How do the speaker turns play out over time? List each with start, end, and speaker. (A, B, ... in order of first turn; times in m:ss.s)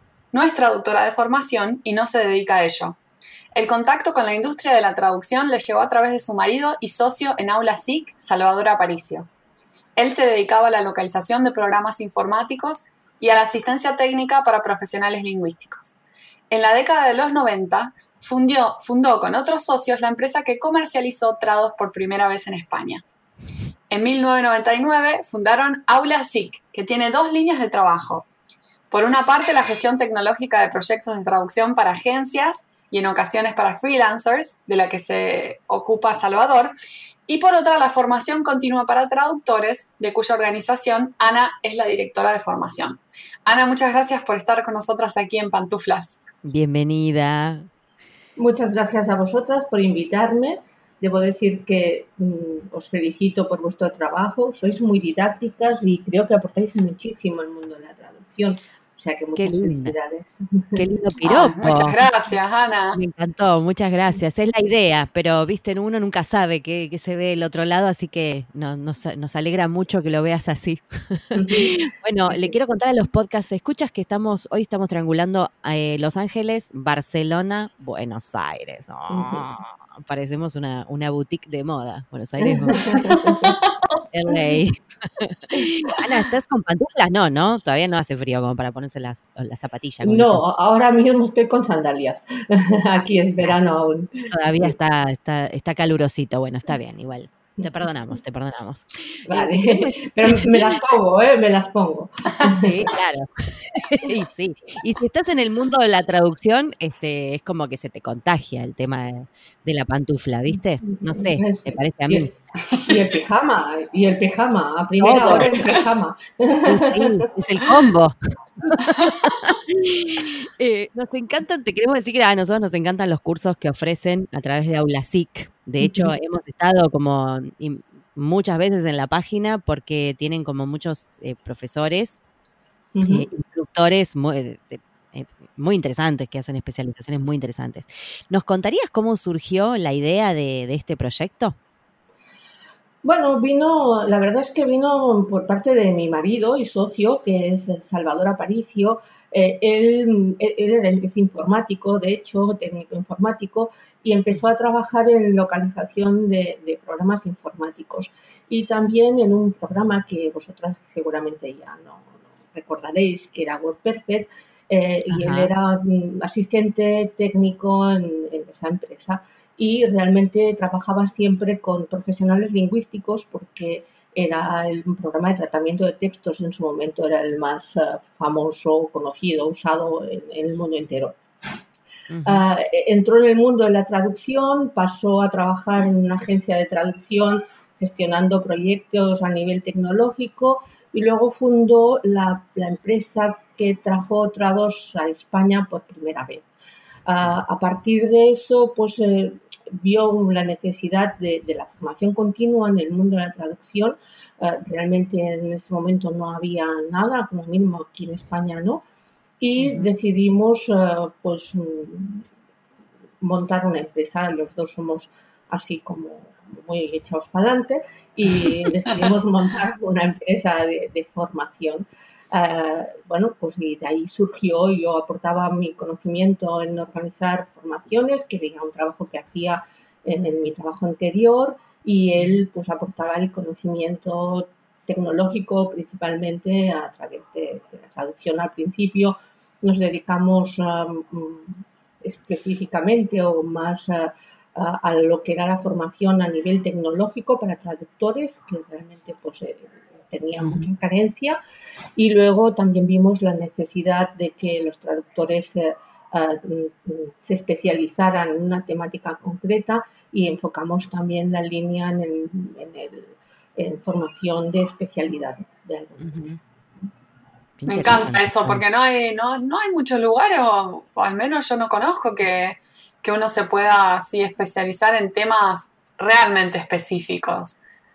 0:00.3-0:03.0 A
0:03.5-0:09.3 A
0:10.0-0:15.9 A
0:16.5-0:23.0 A
0:23.9-0:28.2 A
0:28.9-0:36.7 A
0:37.3-0:46.2 A
0:46.4-0:47.7 B
0:48.4-1:00.8 C
0:59.4-0:59.9 B
1:00.8-1:02.0 B
1:01.2-1:03.0 A
1:02.9-1:23.0 B
1:11.3-1:11.8 C
1:12.3-1:12.5 C
1:19.1-1:19.4 C
1:22.4-1:23.6 C
1:24.1-1:30.4 B
1:30.0-1:34.7 C
1:34.3-1:40.8 B
1:39.3-1:42.7 C
1:42.4-1:52.3 B
1:50.8-1:57.2 C
1:55.0-1:55.6 B
1:56.6-2:12.2 B
2:05.8-2:06.1 C
2:12.9-2:13.3 C
2:13.1-2:21.6 B
2:23.0-3:01.2 C
2:45.1-2:45.5 B
3:02.1-3:02.4 B
3:02.2-3:16.5 C
3:17.0-3:28.8 C
3:29.4-3:32.2 C
3:29.6-3:29.9 B
3:33.2-4:11.4 C
4:10.4-4:10.7 B
4:12.0-4:26.4 C
4:26.0-4:26.4 B
4:27.6-4:28.6 B
4:27.7-4:37.6 A